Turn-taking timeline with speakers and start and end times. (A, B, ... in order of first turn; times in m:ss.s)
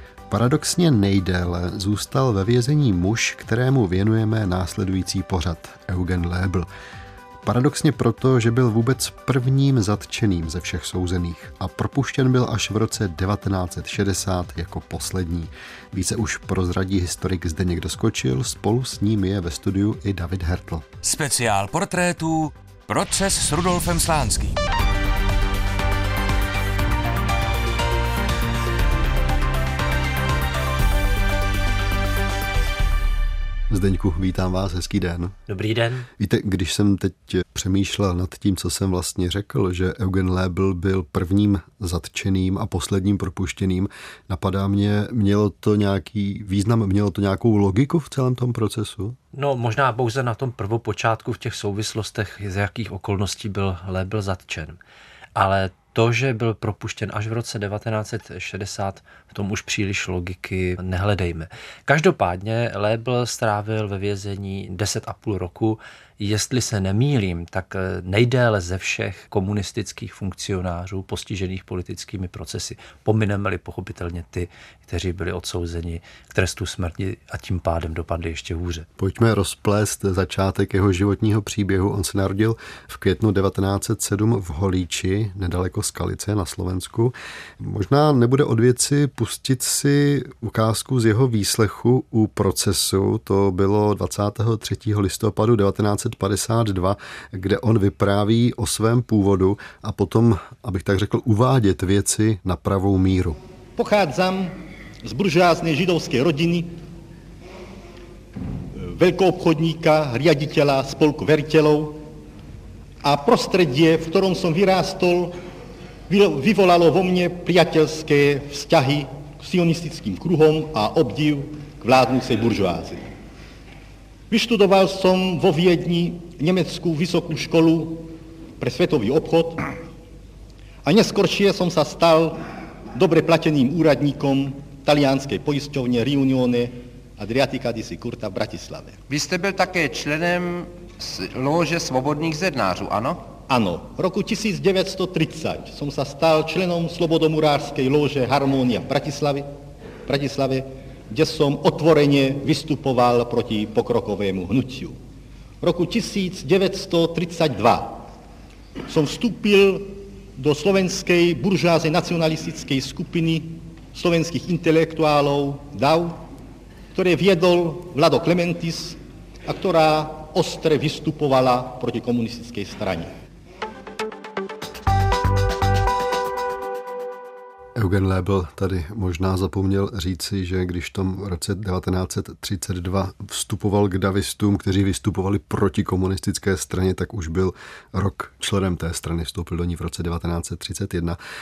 0:00.3-0:06.7 A
0:07.4-0:20.9 A
0:21.0-0:24.6 B
0:33.7-0:35.4 A
0:35.5-0:36.1 C
0:36.2-0:49.2 A
0:49.3-0:54.8 C
0:55.4-1:18.9 C
1:19.0-1:43.4 A
1:43.8-1:46.8 D
1:48.8-1:52.0 D
1:53.0-1:55.4 D
1:56.1-2:03.1 D
2:04.3-2:09.6 D
2:10.8-2:12.4 D
2:12.9-2:19.0 D
2:19.1-2:23.2 E
2:23.5-2:29.5 D
2:30.0-2:35.0 D
2:35.6-2:38.0 D
2:38.9-2:46.2 D
2:46.9-2:53.1 D
2:57.8-3:11.2 A